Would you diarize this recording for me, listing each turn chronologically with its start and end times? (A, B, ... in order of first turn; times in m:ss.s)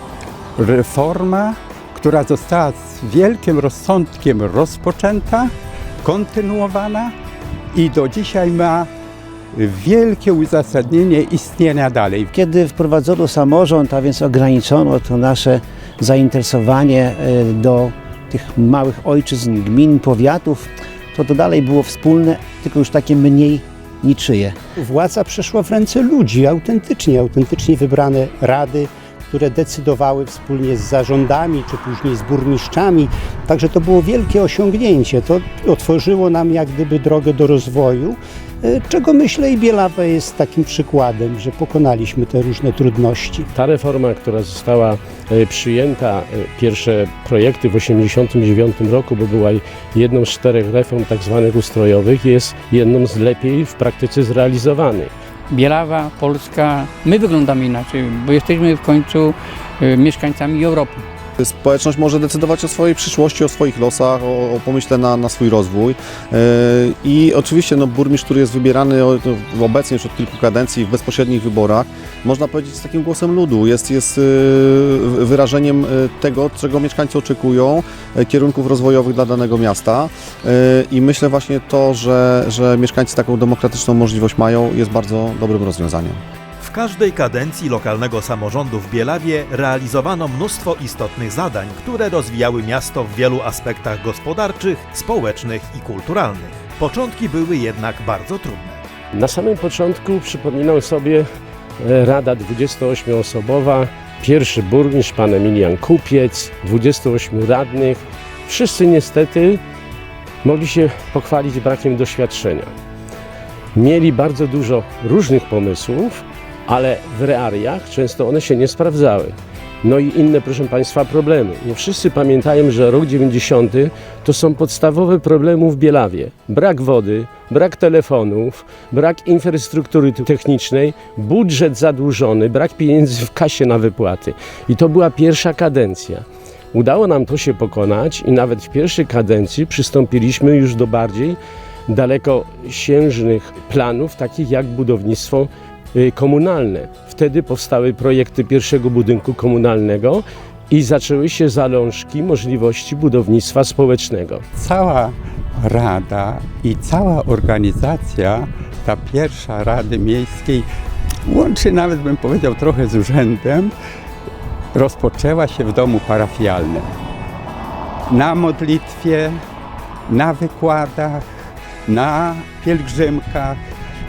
0:00.6-0:07.1 A
0:07.7-0:08.9 A
0:09.5-0:12.3 A
0:12.3-0:24.6 B
0:24.8-0:43.5 C
0:43.5-0:55.1 D
0:55.5-1:01.0 E
1:01.4-1:26.2 F
1:26.6-1:38.8 G
1:39.1-1:41.2 D
1:41.8-1:49.6 D
1:50.4-1:52.7 D
1:53.8-2:34.4 D
2:34.6-2:40.7 A
2:41.2-2:43.7 A
2:44.7-2:46.9 A
2:48.1-2:49.4 A
2:50.1-2:53.6 A